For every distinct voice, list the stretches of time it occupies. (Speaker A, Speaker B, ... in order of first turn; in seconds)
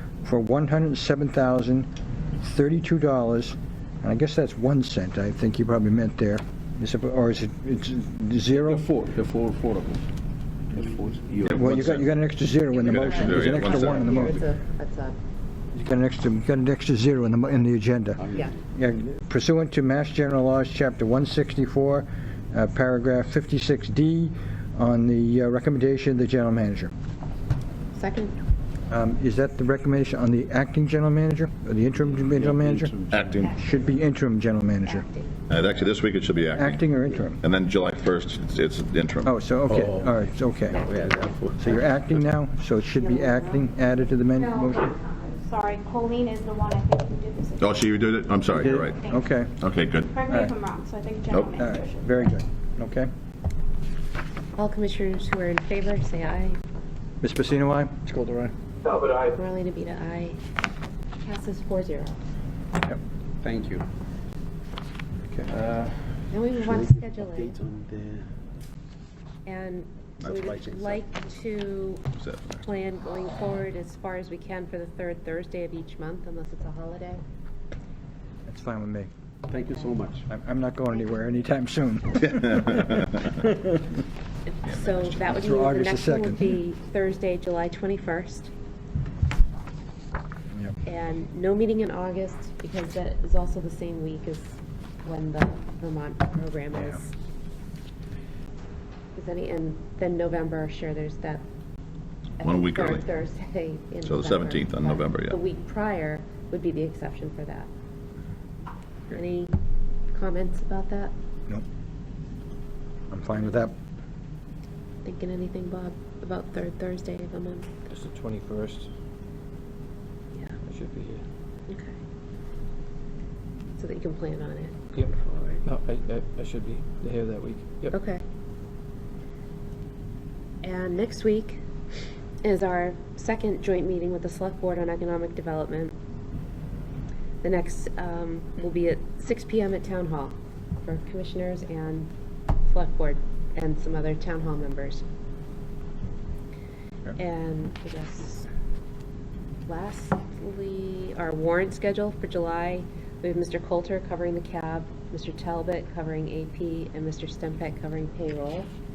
Speaker A: 0.2-1.9, 2.4-8.8, 11.4-14.4, 15.7-26.9, 28.9-32.9, 33.5-35.1, 36.5-37.4, 39.2-40.9, 41.6-44.9, 48.7-49.5, 50.3-50.6, 51.6-53.1, 57.2-58.1, 78.5-79.1, 80.3-83.6, 85.1-86.5, 113.1-113.7
Speaker B: 8.5-10.1, 10.7-12.0, 18.2-18.5, 32.0-33.5, 39.7-40.1, 40.7-41.8, 63.4-63.9, 65.4-66.0, 66.6-68.2, 70.2-71.0, 79.5-80.2
Speaker C: 11.7-12.0, 12.8-14.3, 33.1-33.6, 35.5-36.8, 37.4-39.3, 47.6-49.1, 49.6-50.1, 51.3-51.6, 72.2-72.6, 102.4-103.1, 104.0-105.4
Speaker D: 13.1-15.2, 27.9-28.3, 34.9-35.4, 40.7-41.2, 43.0-43.4, 54.6-56.6, 59.1-60.4, 61.2-62.2, 66.3-67.5, 69.5-72.1, 72.6-77.2, 84.5-88.5, 90.8-97.1, 99.2-101.4, 102.4-107.7, 109.1-109.6, 110.1-111.1, 115.0-117.8, 121.7-121.9, 123.8-125.6, 127.9-128.2, 130.6-131.6, 132.4-135.9, 137.4-142.1, 142.7-145.0, 147.1-148.5, 149.7-158.7
Speaker E: 45.5-47.8, 50.1-52.1
Speaker F: 58.1-58.5, 117.9-118.9, 120.7-121.2, 125.6-127.9